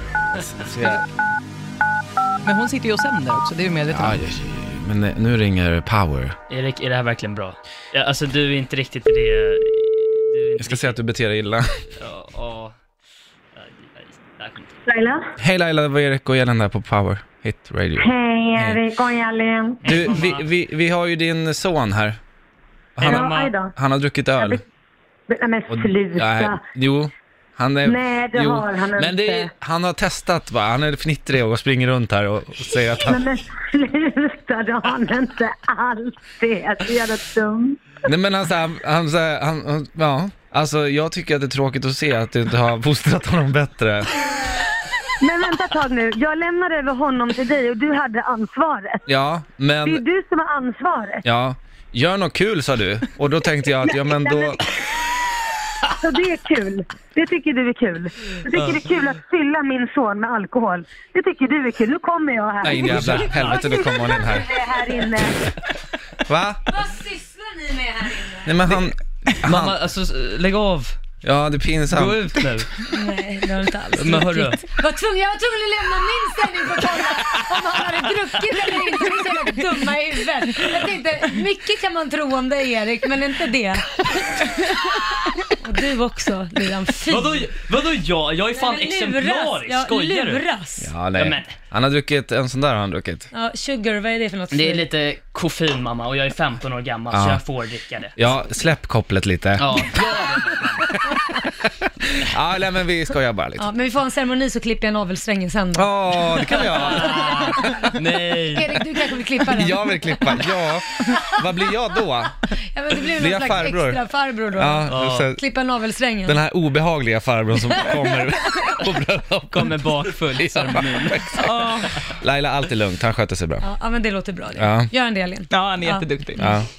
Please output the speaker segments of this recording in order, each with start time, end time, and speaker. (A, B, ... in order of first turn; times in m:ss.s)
0:00.3-0:01.0 A
0:02.4-0:04.2 B
0:03.9-0:06.4 A
0:06.5-0:11.0 C
0:10.6-0:11.8 A
0:12.0-0:12.8 C
0:13.5-0:14.8 C
0:14.8-0:15.2 D
0:15.4-0:18.8 A
0:18.0-0:20.0 D
0:19.8-0:20.4 C
0:19.8-0:22.2 A
0:23.0-0:24.6 A
0:23.0-0:23.5 C
0:23.0-0:23.7 D
0:25.3-0:26.6 D
0:25.7-0:33.2 A
0:27.8-0:29.5 D
0:33.0-0:37.8 D
0:38.0-0:44.1 A
0:45.2-0:49.1 D
0:49.1-0:50.0 A
0:49.8-0:51.2 D
0:51.2-0:54.6 A
0:53.8-0:54.6 D
0:55.9-1:03.6 D
1:02.6-1:04.5 A
1:02.8-1:03.8 C
1:03.0-1:05.1 E
1:04.2-1:05.4 D
1:06.3-1:06.6 A
1:06.7-1:08.5 E
1:08.4-1:09.8 A
1:08.7-1:11.0 C
1:11.2-1:12.2 A
1:11.9-1:12.7 C
1:12.8-1:27.5 E
1:14.0-1:14.6 C
1:27.0-1:30.4 C
1:28.5-1:30.9 E
1:30.8-1:33.3 A
1:31.1-1:31.6 C
1:33.3-1:34.9 E
1:34.5-1:38.2 C
1:37.1-1:37.4 A
1:38.2-1:40.0 A
1:39.6-1:40.9 C
1:41.1-1:43.6 A
1:43.6-1:47.9 E
1:45.8-1:48.0 A
1:46.5-1:48.8 C
1:48.5-1:51.6 E
1:49.4-1:52.4 A
1:52.6-1:56.4 E
1:53.0-1:54.0 A
1:54.6-1:55.4 A
1:54.9-1:55.3 C
1:56.2-2:03.7 A
1:57.7-1:58.8 E
1:59.5-2:01.4 C
2:01.4-2:02.0 B
2:03.6-2:06.6 E
2:04.6-2:04.9 A
2:05.5-2:06.6 B
2:06.4-2:06.6 A